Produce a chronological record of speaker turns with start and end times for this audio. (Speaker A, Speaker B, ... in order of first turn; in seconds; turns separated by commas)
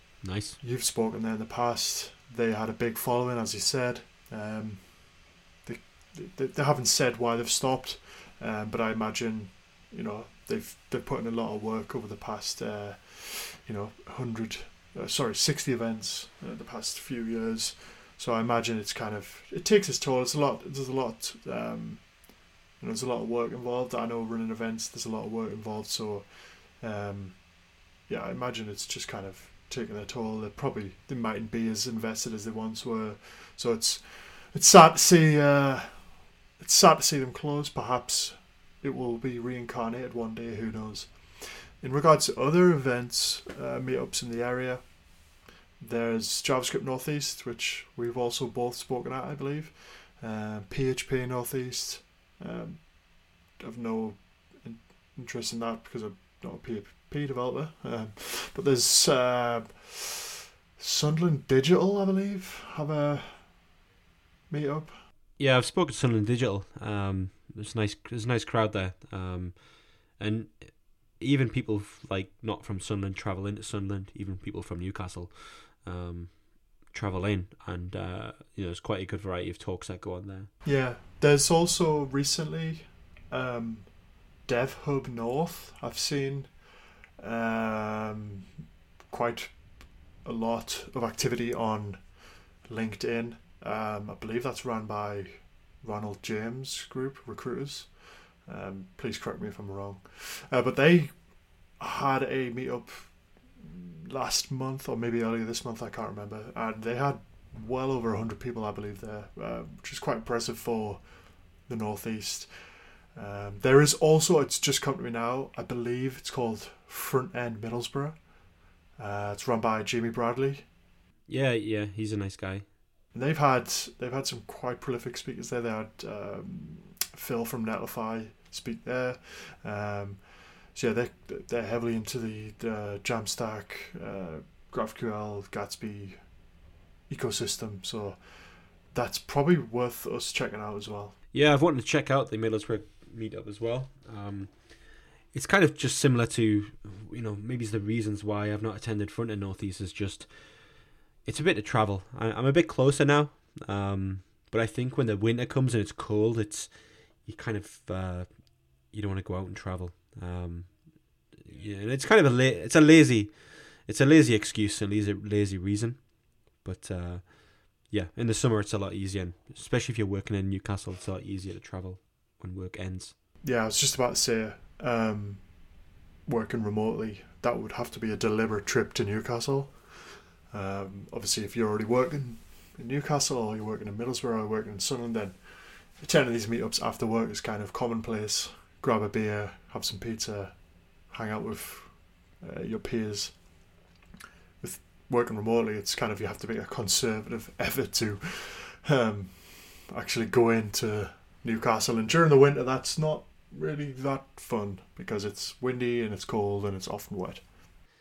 Speaker A: 0.2-0.6, Speaker B: 0.6-5.0, Speaker B: 5.6-22.1, Speaker B: 22.8-27.4, Speaker B: 28.1-45.0, Speaker B: 45.8-52.9, Speaker B: 53.5-63.5, Speaker B: 64.5-64.9, Speaker A: 65.4-80.5, Speaker B: 80.6-83.9, Speaker B: 84.4-86.5, Speaker B: 87.2-88.5, Speaker B: 89.1-89.6, Speaker B: 90.2-92.1, Speaker B: 92.6-111.0, Speaker B: 111.7-112.5, Speaker B: 113.1-118.2, Speaker B: 119.0-120.7, Speaker A: 121.3-122.7, Speaker B: 123.1-136.2, Speaker B: 137.1-138.2, Speaker B: 138.9-141.2, Speaker A: 141.3-173.1, Speaker B: 173.4-175.5, Speaker B: 176.2-193.4, Speaker B: 194.6-207.4